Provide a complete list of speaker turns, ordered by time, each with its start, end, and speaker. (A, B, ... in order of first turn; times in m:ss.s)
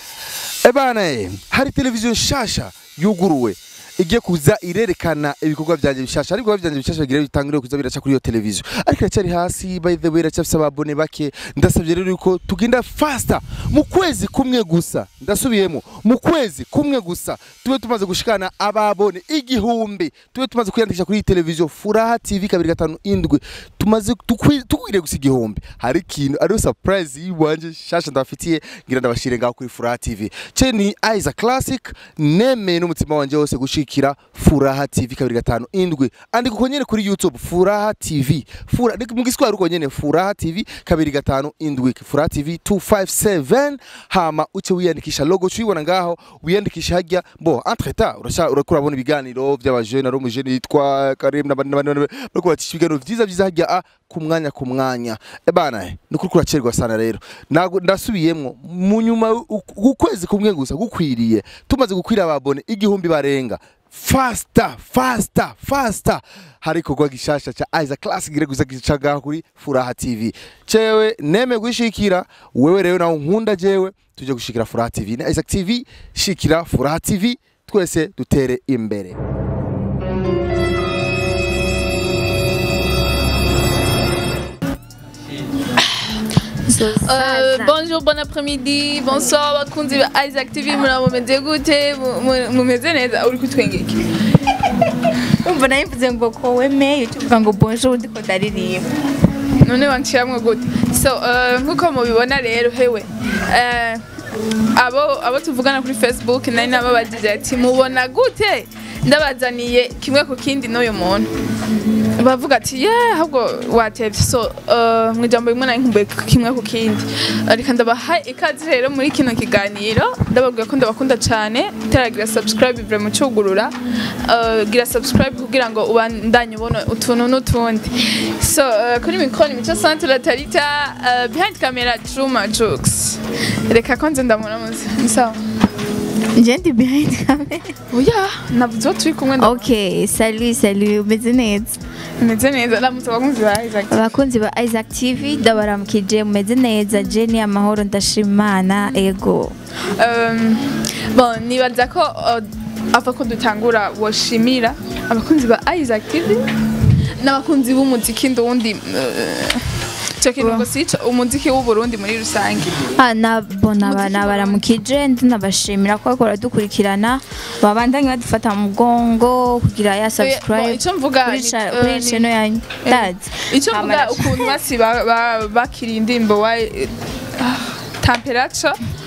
0:00.6-1:19.2 A
1:26.7-1:27.8 B
1:27.0-1:34.1 C
1:35.4-1:38.9 B
1:39.6-1:44.0 C
1:44.7-1:51.3 C
1:52.2-2:15.4 C
2:16.3-2:17.7 B
2:17.9-2:19.7 C
2:19.4-2:21.8 B
2:22.2-2:24.1 C
2:23.9-2:29.5 B
2:30.0-2:36.5 C
2:37.2-2:39.7 C
2:40.2-2:42.9 C
2:40.4-2:40.7 B
2:42.9-2:54.6 B
2:43.8-2:44.6 C
2:50.2-2:52.3 C
2:52.8-2:58.8 C